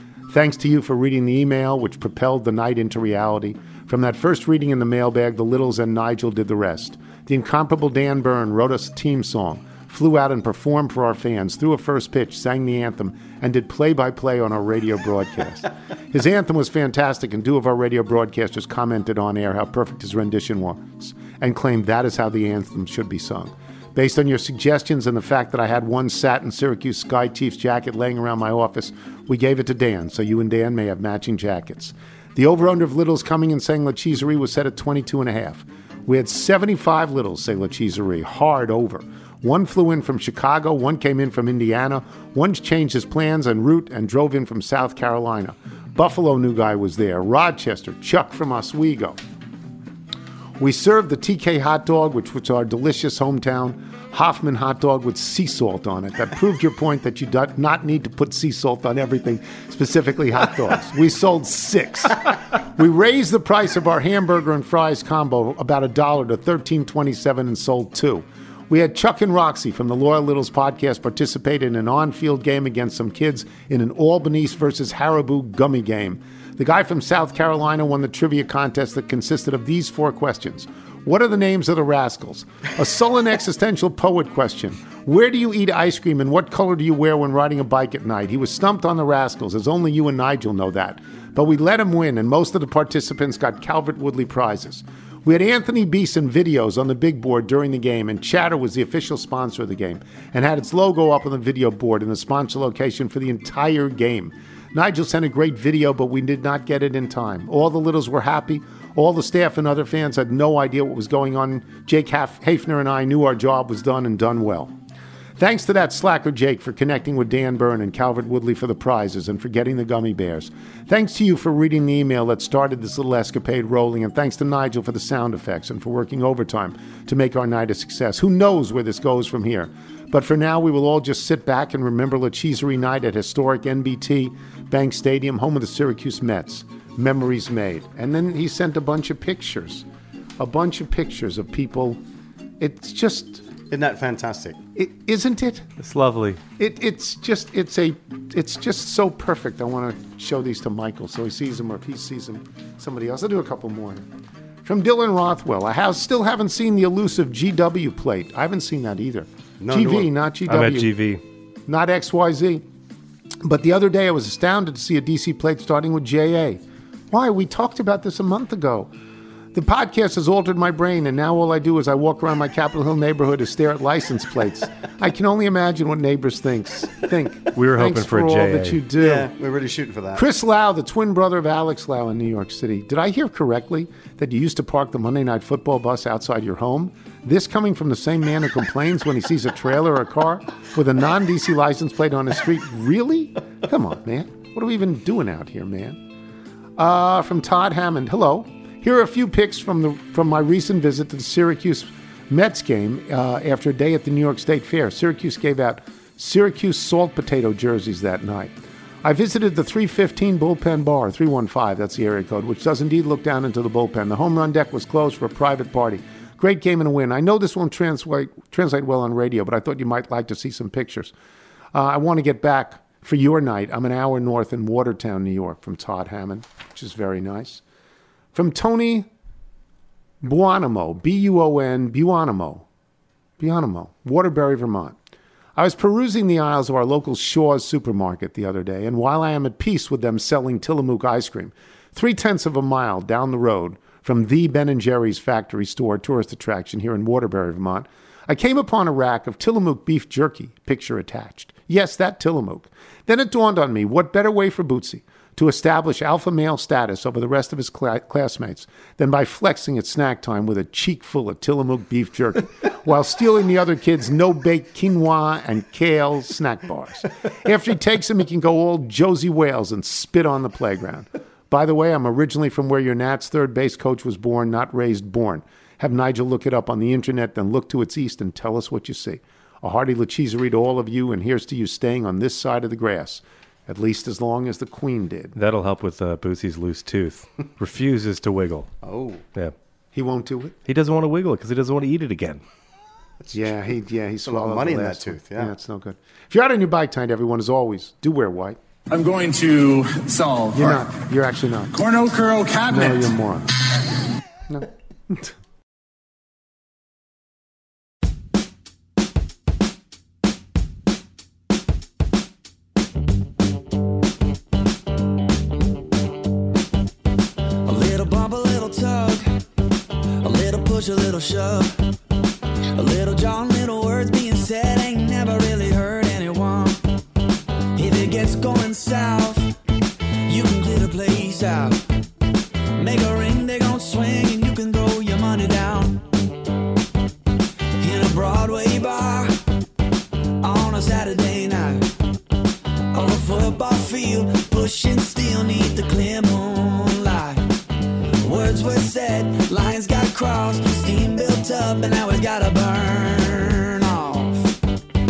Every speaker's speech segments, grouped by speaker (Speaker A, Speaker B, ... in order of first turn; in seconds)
Speaker A: 0.3-49.2, 50.6-114.7, 115.4-139.8, 140.4-142.0, 142.6-143.4, 144.8-145.7, 146.6-154.0, 154.6-160.9, 161.7-162.6, 163.4-168.9, 169.5-179.3, 180.2-196.0, 196.8-221.1, 221.7-227.6, 228.3-229.1, 230.2-232.7, 233.4-235.0, 235.6-285.4, 289.9-290.6, 293.3-298.6, 300.5-301.7, 302.7-303.5, 304.5-305.3
Speaker B: 143.7-144.6, 159.6-160.1, 179.0-180.3, 288.8-289.2, 294.2-295.5
Speaker C: 145.8-146.4, 160.5-161.2, 177.5-178.8, 285.4-288.7, 290.7-292.4
Speaker D: 298.9-300.9, 301.7-303.2
Speaker E: 317.6-319.3, 320.2-321.8, 322.8-326.9, 327.8-329.6, 330.2-331.8, 332.8-336.1, 337.8-339.4, 340.4-341.9, 342.9-347.5, 348.2-354.5